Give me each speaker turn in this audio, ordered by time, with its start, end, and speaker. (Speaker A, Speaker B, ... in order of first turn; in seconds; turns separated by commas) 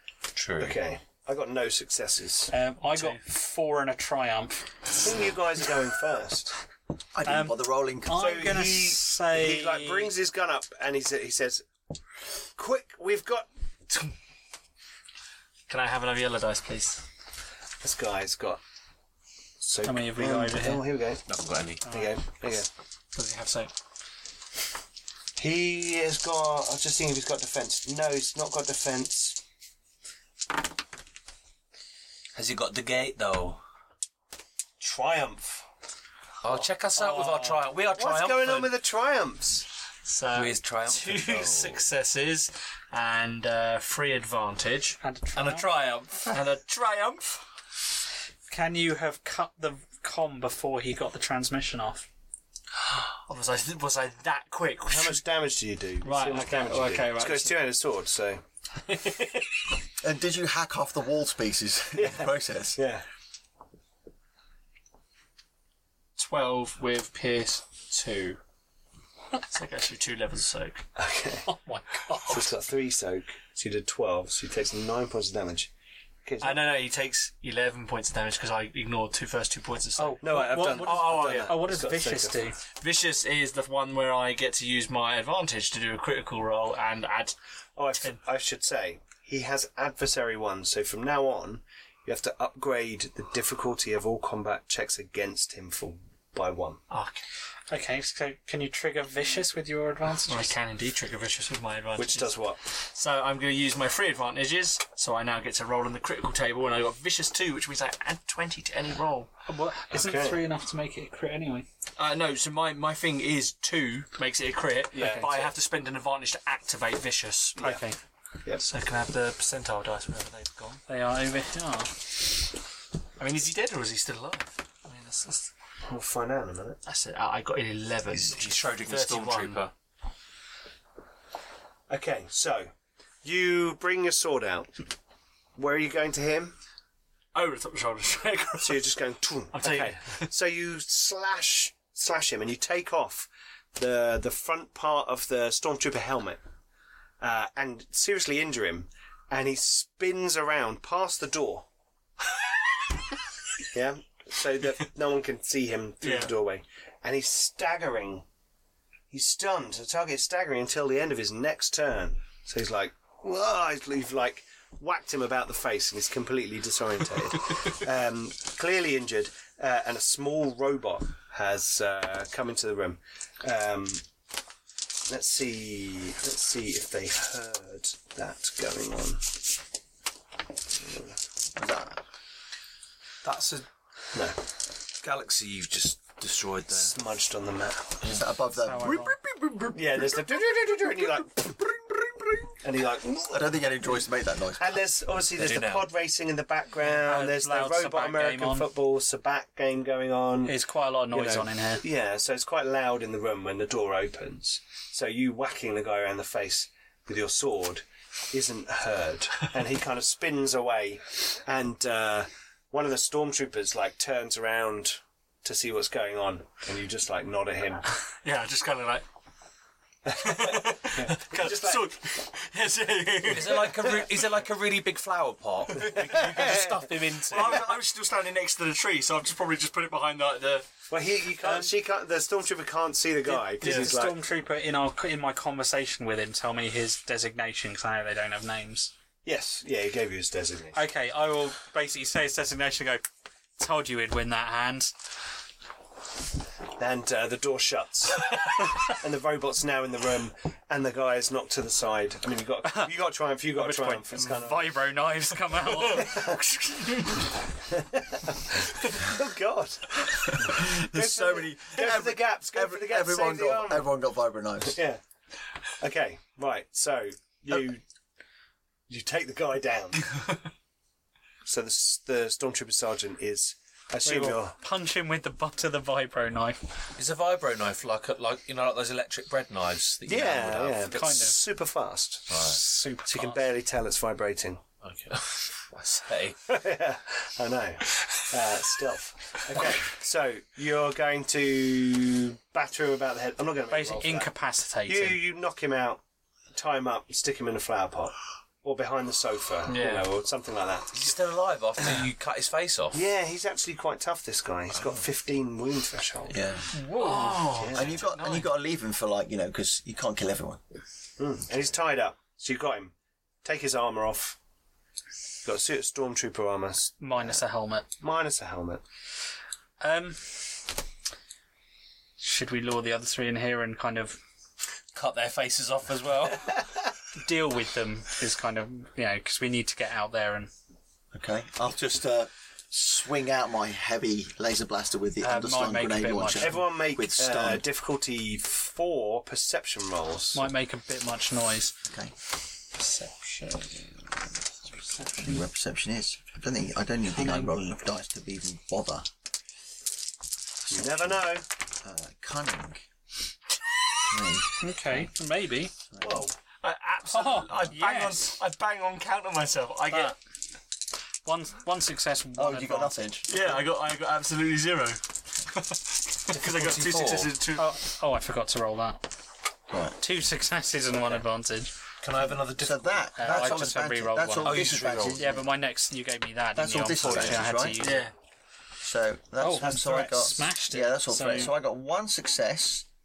Speaker A: 0.3-0.9, Speaker B: 0.6-2.5, Speaker C: 2.5-4.7, Speaker D: 2.9-3.2, Speaker B: 5.0-6.5, Speaker E: 7.1-8.4, Speaker C: 7.3-10.1, Speaker B: 8.1-11.7, Speaker B: 12.6-13.5, Speaker D: 15.7-17.0, Speaker B: 17.8-18.6, Speaker B: 19.6-21.3, Speaker C: 19.8-20.9, Speaker A: 21.3-21.9, Speaker B: 21.8-22.7, Speaker D: 23.1-23.7, Speaker B: 25.4-29.4, Speaker A: 32.4-33.6, Speaker B: 34.8-35.6, Speaker A: 36.4-38.8, Speaker D: 37.0-37.6, Speaker B: 37.9-39.7, Speaker D: 40.0-45.0, Speaker A: 40.3-41.9, Speaker C: 45.0-45.7, Speaker A: 45.3-46.4, Speaker D: 46.3-47.4, Speaker C: 48.5-52.1, Speaker D: 52.9-55.2, Speaker B: 54.9-58.4, Speaker D: 56.0-57.6, Speaker D: 58.8-59.7, Speaker E: 60.0-62.8, Speaker B: 61.9-63.0, Speaker D: 66.2-68.4, Speaker D: 69.4-70.8, Speaker B: 71.0-71.5, Speaker C: 71.5-72.5, Speaker B: 72.3-75.7, Speaker B: 76.2-76.7, Speaker D: 76.4-81.7, Speaker C: 80.0-82.6, Speaker B: 80.2-82.5, Speaker D: 82.7-87.4, Speaker B: 87.8-96.8, Speaker D: 96.9-97.2, Speaker C: 97.7-100.5, Speaker D: 100.3-109.3, Speaker B: 102.0-102.6, Speaker C: 109.5-111.7, Speaker B: 109.9-110.4, Speaker D: 112.0-117.7, Speaker B: 114.9-115.5, Speaker C: 115.0-115.3, Speaker B: 117.6-117.8, Speaker C: 117.6-118.0, Speaker D: 118.5-120.8, Speaker C: 120.9-122.0, Speaker D: 123.2-125.5, Speaker B: 125.9-126.8, Speaker D: 126.9-129.7, Speaker A: 128.1-129.7, Speaker B: 131.9-132.7, Speaker B: 133.2-134.7, Speaker B: 135.6-136.6, Speaker D: 137.3-138.9, Speaker B: 138.6-146.4, Speaker D: 139.5-140.3, Speaker B: 147.2-151.7, Speaker B: 153.7-158.3, Speaker D: 156.0-156.3, Speaker B: 159.1-174.0, Speaker B: 175.1-179.4, Speaker B: 180.8-181.2, Speaker E: 181.6-182.0, Speaker A: 183.2-183.7, Speaker B: 184.1-184.4, Speaker A: 185.0-187.0, Speaker B: 186.7-188.0, Speaker E: 188.0-190.3, Speaker C: 188.6-189.2, Speaker B: 189.7-191.6, Speaker E: 191.4-192.5, Speaker B: 192.6-193.5, Speaker E: 193.2-194.8, Speaker B: 194.6-200.6, Speaker A: 195.3-195.9, Speaker C: 196.8-198.7, Speaker C: 200.5-201.8, Speaker B: 201.1-217.8, Speaker D: 218.2-219.1, Speaker B: 220.1-221.9, Speaker D: 220.2-224.0, Speaker A: 223.2-227.8, Speaker B: 225.9-227.0, Speaker D: 227.3-230.7, Speaker B: 230.9-234.2, Speaker C: 233.3-238.9, Speaker D: 233.6-234.0, Speaker B: 239.2-240.8, Speaker C: 240.7-243.0, Speaker C: 243.6-244.9, Speaker B: 246.8-254.8, Speaker C: 252.6-252.9, Speaker C: 253.6-256.2, Speaker D: 255.6-257.4, Speaker B: 255.9-256.6, Speaker B: 257.7-263.9, Speaker D: 258.8-259.1, Speaker E: 260.4-264.8, Speaker B: 264.6-265.0, Speaker B: 265.8-267.8, Speaker B: 268.9-270.2, Speaker B: 271.4-274.6, Speaker C: 274.1-276.6, Speaker A: 277.0-281.0, Speaker B: 280.1-282.4, Speaker C: 280.9-281.4, Speaker A: 282.3-282.6, Speaker C: 282.4-283.5, Speaker B: 283.1-284.6, Speaker A: 284.8-286.4, Speaker B: 286.5-294.3, Speaker C: 293.7-295.2, Speaker B: 294.9-296.0, Speaker B: 296.5-301.0, Speaker D: 299.7-300.1, Speaker A: 300.9-303.0, Speaker B: 302.9-306.4, Speaker E: 306.3-306.7, Speaker D: 306.7-308.5, Speaker C: 306.9-307.4, Speaker B: 307.4-307.9, Speaker E: 307.7-310.6, Speaker B: 311.2-312.9, Speaker B: 313.4-314.4, Speaker B: 315.4-317.0, Speaker C: 317.0-317.9, Speaker B: 318.0-318.8, Speaker C: 319.8-320.7, Speaker C: 322.2-324.2, Speaker A: 324.9-326.7, Speaker C: 327.1-330.5, Speaker E: 331.1-337.6, Speaker C: 335.2-336.6, Speaker B: 336.4-340.5, Speaker C: 340.3-341.8, Speaker E: 341.8-342.1, Speaker D: 342.7-344.1, Speaker D: 344.9-345.4, Speaker E: 345.0-349.1, Speaker B: 350.7-351.5, Speaker E: 350.7-352.9, Speaker E: 354.1-355.1, Speaker C: 354.6-355.7, Speaker E: 355.9-356.3, Speaker B: 356.0-356.4, Speaker D: 356.5-360.2, Speaker C: 357.1-358.4, Speaker C: 359.9-360.2, Speaker C: 361.2-363.5, Speaker E: 362.4-363.5, Speaker D: 363.3-367.8, Speaker A: 366.3-367.3, Speaker C: 367.6-369.0, Speaker E: 369.7-370.0, Speaker C: 370.0-371.7, Speaker A: 372.0-373.6, Speaker E: 372.2-375.5, Speaker C: 373.2-378.1, Speaker A: 374.4-375.2, Speaker E: 376.6-377.9, Speaker D: 377.8-378.1, Speaker E: 378.8-382.9, Speaker C: 379.4-381.5